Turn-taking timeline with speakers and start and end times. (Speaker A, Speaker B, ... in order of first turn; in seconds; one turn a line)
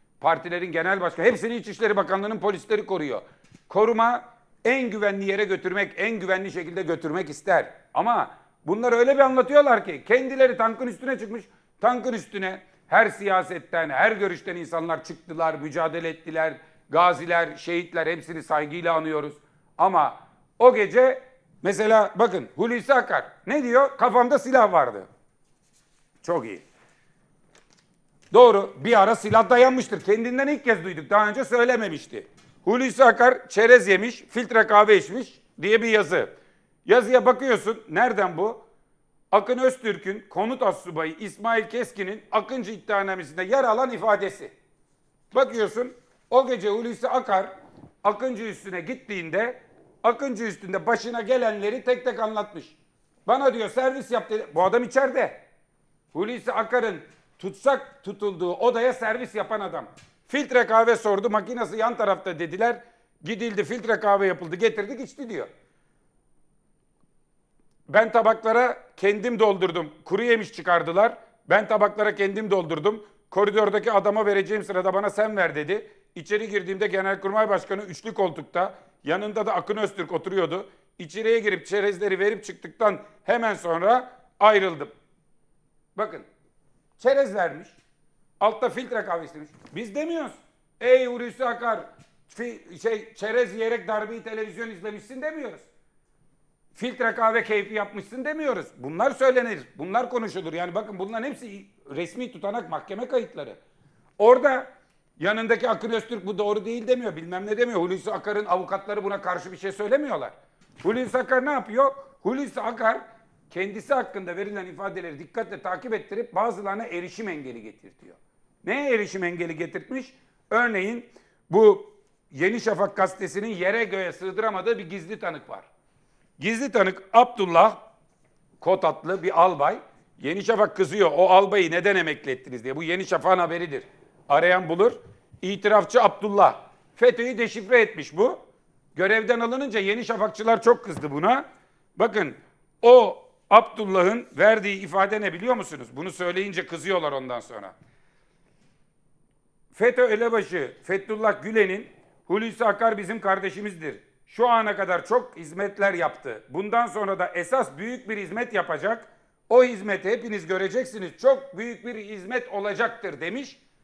Speaker A: 0.2-25.1
Speaker A: 26.2-26.6
Speaker A: 28.3-36.3
Speaker A: 36.9-38.6
Speaker A: 39.3-44.5
Speaker A: 45.3-47.5
Speaker A: 48.0-55.4
Speaker A: 56.1-65.5
Speaker A: 67.9-84.9
Speaker A: 86.0-86.3
Speaker A: 87.0-87.8
Speaker A: 88.4-95.7
Speaker A: 96.8-103.6
Speaker A: 104.2-125.7
Speaker A: 126.4-127.8
Speaker A: 128.6-138.4
Speaker A: 138.9-141.4
Speaker A: 142.0-147.7
Speaker A: 149.7-163.6